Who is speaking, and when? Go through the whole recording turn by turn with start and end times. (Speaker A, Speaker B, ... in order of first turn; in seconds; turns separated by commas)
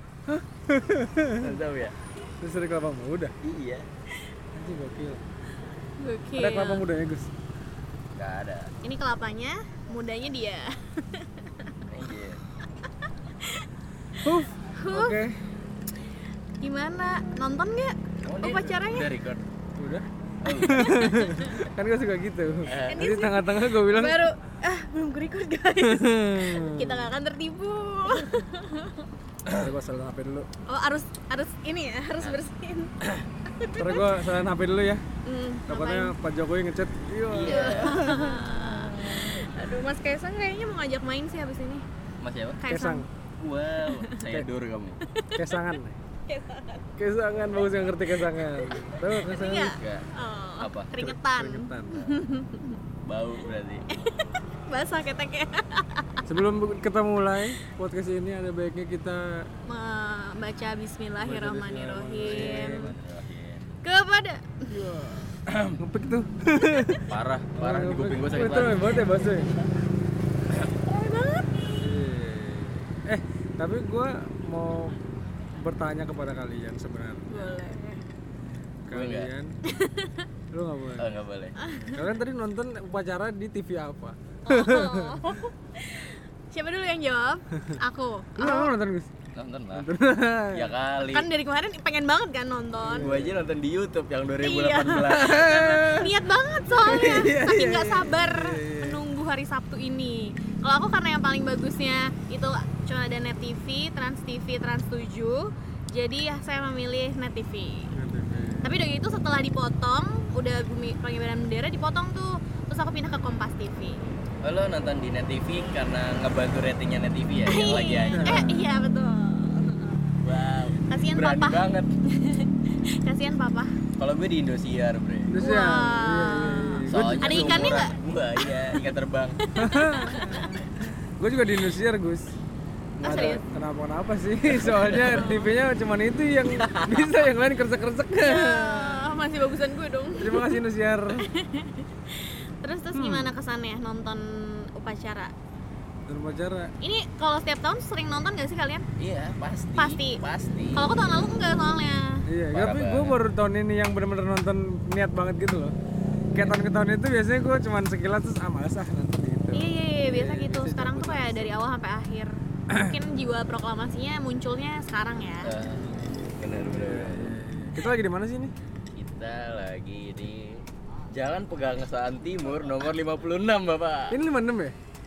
Speaker A: 0.3-1.6, Speaker B: 1.4-1.9, Speaker A: 2.4-3.3, Speaker B: 3.4-3.9, Speaker A: 4.5-5.2, Speaker C: 6.0-6.8, Speaker A: 6.3-7.3, Speaker B: 8.1-8.7, Speaker C: 8.8-11.8, Speaker B: 11.9-12.4, Speaker C: 12.8-13.7, Speaker A: 14.2-15.3, Speaker C: 14.7-15.2, Speaker C: 16.6-19.1, Speaker B: 18.2-19.4, Speaker A: 19.8-24.3, Speaker B: 20.4-21.2, Speaker C: 20.9-21.6, Speaker B: 22.6-23.1, Speaker C: 22.9-29.1, Speaker A: 25.8-27.1, Speaker B: 29.4-29.7, Speaker A: 29.6-30.5, Speaker C: 30.7-34.1, Speaker A: 33.8-35.0, Speaker C: 35.2-36.1, Speaker A: 35.7-38.9, Speaker B: 37.3-38.1, Speaker C: 37.5-41.8, Speaker B: 42.2-42.6, Speaker C: 42.6-43.0, Speaker A: 42.7-43.1, Speaker B: 43.4-45.0, Speaker C: 43.8-44.2, Speaker C: 45.0-45.6, Speaker A: 45.3-45.9, Speaker C: 46.3-46.8, Speaker A: 47.0-49.7, Speaker C: 48.3-52.8, Speaker B: 49.5-50.1, Speaker B: 50.6-50.9, Speaker A: 51.0-52.0, Speaker B: 51.9-52.2, Speaker B: 53.0-53.9, Speaker C: 53.9-56.3, Speaker A: 56.2-59.5, Speaker C: 59.7-62.9, Speaker A: 61.2-62.9, Speaker B: 62.2-63.7, Speaker C: 63.8-64.7, Speaker A: 64.7-67.0, Speaker B: 65.5-65.8, Speaker B: 67.0-69.1, Speaker A: 67.6-69.5, Speaker C: 70.8-71.8, Speaker A: 71.8-75.0, Speaker A: 75.5-77.3, Speaker C: 77.3-78.0, Speaker A: 78.9-79.5, Speaker B: 78.9-79.3, Speaker C: 79.6-80.3, Speaker A: 80.5-81.1, Speaker B: 81.0-81.6, Speaker C: 81.6-82.0, Speaker A: 81.9-85.2, Speaker C: 84.5-88.7, Speaker A: 88.4-89.1, Speaker B: 89.3-89.9, Speaker A: 89.7-90.7, Speaker B: 90.5-91.3, Speaker C: 91.1-93.1, Speaker A: 92.8-93.4, Speaker B: 93.0-95.4, Speaker C: 94.4-107.9, Speaker A: 95.0-96.1, Speaker A: 96.7-99.0, Speaker A: 107.9-108.7, Speaker C: 108.6-114.0, Speaker B: 114.4-118.5, Speaker C: 117.5-120.2, Speaker A: 118.1-118.6, Speaker B: 120.2-122.0, Speaker C: 120.8-123.7, Speaker B: 124.0-125.3, Speaker A: 125.3-127.7, Speaker C: 125.4-128.9, Speaker B: 126.9-129.4, Speaker C: 129.4-130.6, Speaker A: 129.6-130.6, Speaker A: 131.2-132.3, Speaker A: 133.0-139.1, Speaker C: 133.0-133.4, Speaker B: 134.5-135.3, Speaker C: 135.0-135.5, Speaker B: 136.6-137.1, Speaker C: 138.2-140.6, Speaker A: 140.2-141.2, Speaker C: 141.1-145.3, Speaker A: 142.9-143.3, Speaker A: 146.1-146.7, Speaker C: 146.8-148.9, Speaker B: 149.0-151.3, Speaker C: 149.8-150.2, Speaker C: 150.7-152.2, Speaker A: 152.3-155.7, Speaker B: 152.5-153.2, Speaker A: 156.3-161.6, Speaker C: 159.5-165.5, Speaker B: 165.4-167.3, Speaker A: 166.7-168.5, Speaker B: 168.9-174.2, Speaker A: 174.1-174.8